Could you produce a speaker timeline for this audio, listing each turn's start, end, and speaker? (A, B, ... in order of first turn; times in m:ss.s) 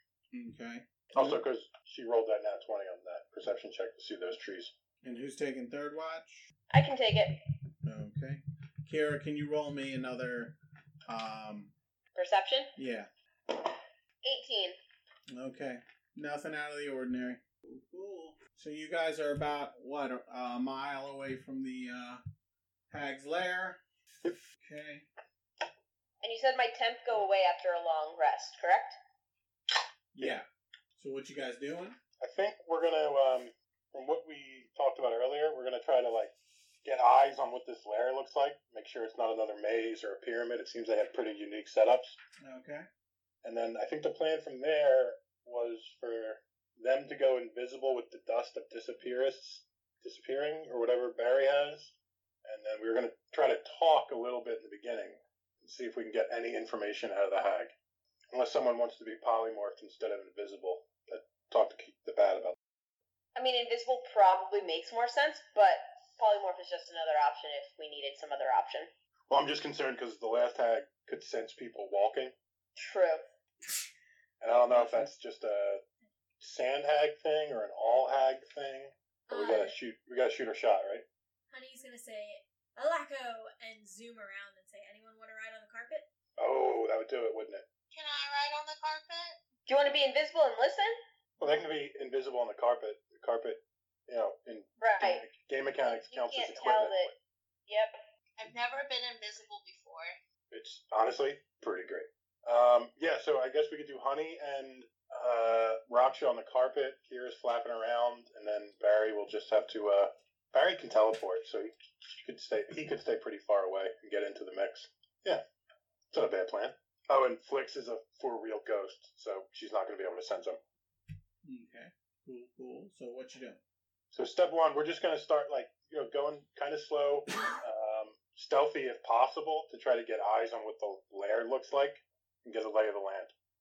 0:00.3-0:01.4 A
0:01.1-0:04.7 B
0:05.0-0:06.5 A
0:06.7-0:07.4 C
0:07.8-0:11.7 A
0:12.1-0:12.7 C
0:12.8-0:13.1 A
0:14.2-0:14.8 C
0:15.3-0:22.2 A
0:22.9-0:23.8 A
0:24.6-0:25.0 A
0:26.2-0:29.0 C
0:30.1-0:30.4 A
0:31.0-0:32.0 A
0:32.2-0:36.3 B
0:36.8-0:42.2 B
0:42.4-0:42.8 A
0:43.4-0:57.7 B
0:58.3-1:02.6 B
1:03.4-1:08.9 C
1:09.3-1:12.3 B
1:12.8-1:13.2 C
1:14.4-1:15.8 B
1:14.7-1:15.1 A
1:16.4-1:21.0 B
1:19.3-1:19.7 D
1:21.5-1:26.0 D
1:26.4-1:27.6 B
1:27.9-1:29.4 E
1:29.7-1:31.0 C
1:31.4-1:37.1 B
1:34.8-1:35.2 C
1:35.9-1:37.1 C
1:37.7-1:38.0 C
1:38.4-1:40.1 E
1:40.5-1:55.4 B
1:56.1-2:00.6 B
2:01.4-2:03.6 A
2:04.1-2:13.3 B